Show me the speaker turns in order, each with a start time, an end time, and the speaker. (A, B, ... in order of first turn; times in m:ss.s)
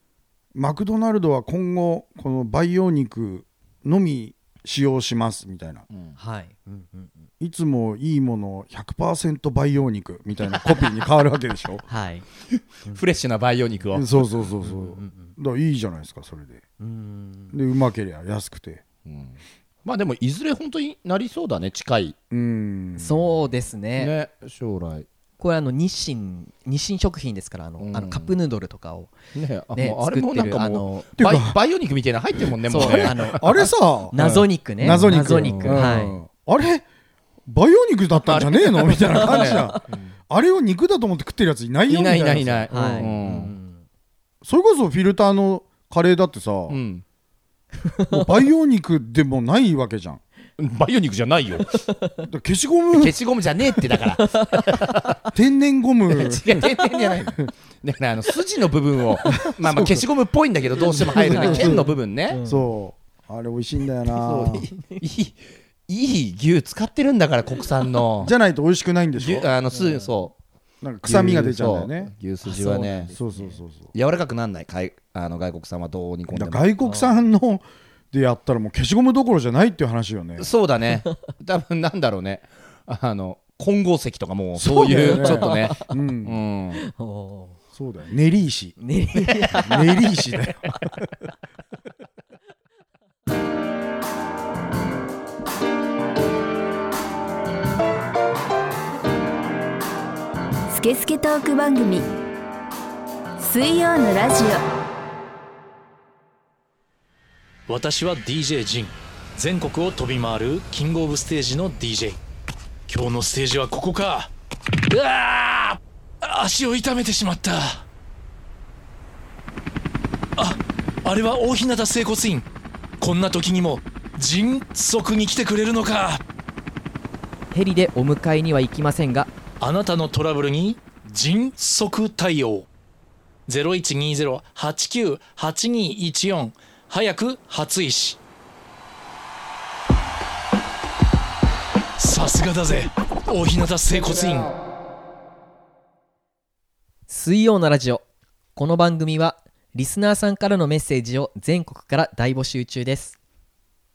0:00.5-0:05.9 A
0:06.2-0:07.3 B
0:07.4-0:11.9 A
0:11.9-0:12.2 B
0:12.6-0:14.3 C
0:13.9-0:16.6 A
0:14.6-0:15.3 B
0:16.8-0:17.6 B
0:17.5-0:18.8 A
0:19.0-0:22.1 C
0:22.3-0:23.2 A
0:23.0-0:24.1 B
0:24.0-0:25.0 C
0:25.4-0:29.1 B
0:27.8-0:28.3 C
0:29.4-0:33.4 C
0:29.7-0:30.9 B
0:31.2-0:31.6 A
0:32.6-0:36.2 B
0:32.7-0:36.8 A
0:34.2-0:35.9 C
0:37.5-0:43.1 A
0:38.2-0:40.1 C
0:39.2-0:39.8 B
0:41.9-0:43.5 C
0:42.7-0:43.8 B
0:44.4-0:46.8 A
0:46.7-0:47.0 C
0:47.8-0:48.3 B
0:48.1-0:50.2 A
0:50.6-0:51.8 C
0:51.8-0:52.2 B
0:52.2-0:53.2 A
0:53.0-0:55.1 C
0:54.2-0:55.1 B
0:55.3-0:56.6 A
0:56.1-1:02.4 C
0:56.6-0:57.1 B
0:59.4-1:00.0 A
1:00.8-1:04.7 A
1:01.1-1:02.7 B
1:04.1-1:08.3 C
1:04.7-1:05.0 B
1:08.2-1:09.5 A
1:09.2-1:10.4 C
1:09.7-1:10.1 B
1:10.8-1:12.1 A
1:11.0-1:13.1 C
1:12.4-1:13.6 B
1:13.1-1:13.9 A
1:13.9-1:16.6 C
1:16.3-1:20.5 A
1:16.8-1:17.2 B
1:20.4-1:26.8 C
1:24.6-1:26.4 A
1:24.8-1:25.9 B
1:26.8-1:27.6 B
1:27.7-1:28.8 A
1:28.8-1:30.1 B
1:29.5-1:30.6 A
1:40.7-1:42.1 D
1:43.4-1:44.6 D
1:47.7-1:52.2 E
1:52.9-1:54.3 E
1:54.9-1:57.9 E
2:00.4-2:02.4 E
2:03.0-2:06.2 E
2:07.5-2:09.3 B
2:09.6-2:12.7 E
2:13.5-2:18.2 E
2:22.0-2:24.5 E
2:27.1-2:28.0 B
2:28.5-2:33.2 B